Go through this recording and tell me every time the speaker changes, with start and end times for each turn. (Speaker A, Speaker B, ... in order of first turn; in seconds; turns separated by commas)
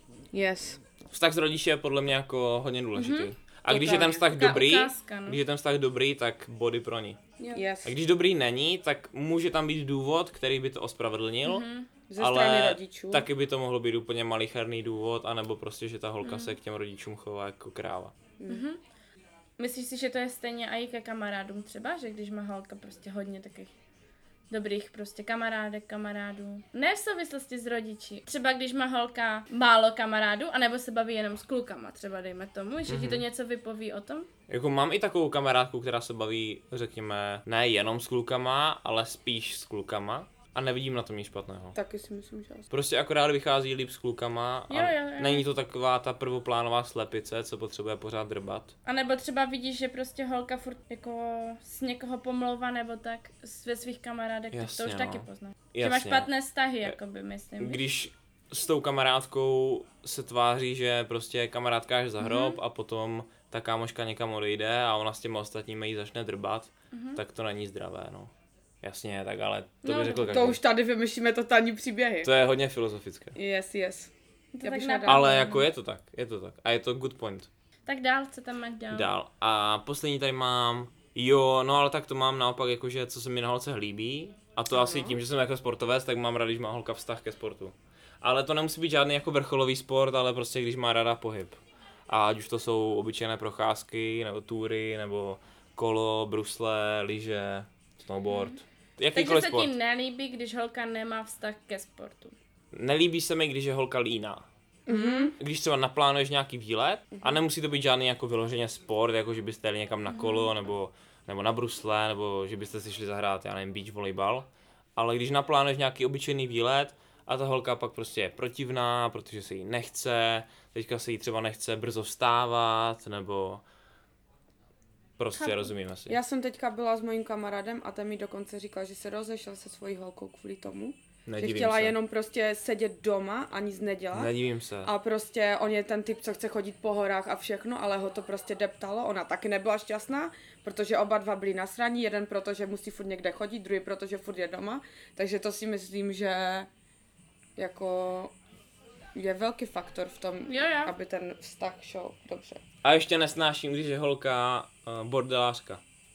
Speaker A: 0.3-0.8, Speaker B: 1.1-7.2, Speaker C: 3.0-5.4, Speaker A: 3.7-4.2, Speaker C: 7.4-7.7, Speaker A: 7.5-7.9, Speaker B: 7.8-11.6, Speaker C: 11.4-11.9, Speaker A: 12.1-13.3, Speaker B: 12.2-18.1, Speaker C: 16.2-16.6, Speaker A: 18.4-18.6, Speaker C: 18.5-18.8, Speaker C: 19.6-23.7, Speaker C: 24.5-34.3, Speaker B: 32.9-33.2, Speaker B: 34.5-41.8, Speaker A: 41.7-42.7, Speaker B: 42.7-48.7, Speaker C: 44.7-45.5, Speaker C: 48.9-57.8, Speaker B: 54.5-56.3, Speaker B: 57.6-70.6, Speaker C: 62.2-62.6, Speaker C: 66.9-67.2, Speaker C: 69.8-70.5, Speaker A: 70.3-72.3, Speaker B: 72.2-73.4, Speaker A: 73.3-74.1, Speaker C: 74.5-75.6, Speaker A: 74.6-75.5, Speaker B: 75.1-77.5, Speaker C: 77.9-79.1, Speaker B: 78.9-99.7, Speaker A: 84.7-85.2, Speaker C: 98.3-98.6, Speaker C: 99.1-102.3, Speaker B: 102.7-104.4, Speaker A: 104.9-105.3, Speaker C: 104.9-105.3, Speaker B: 105.4-123.6, Speaker C: 110.1-110.5, Speaker B: 125.2-126.2, Speaker C: 125.4-125.7, Speaker A: 126.1-134.3, Speaker B: 131.2-131.9, Speaker B: 134.1-134.9, Speaker A: 134.8-146.7, Speaker A: 147.6-148.3, Speaker A: 149.1-152.6, Speaker C: 150.5-150.9, Speaker B: 152.8-155.8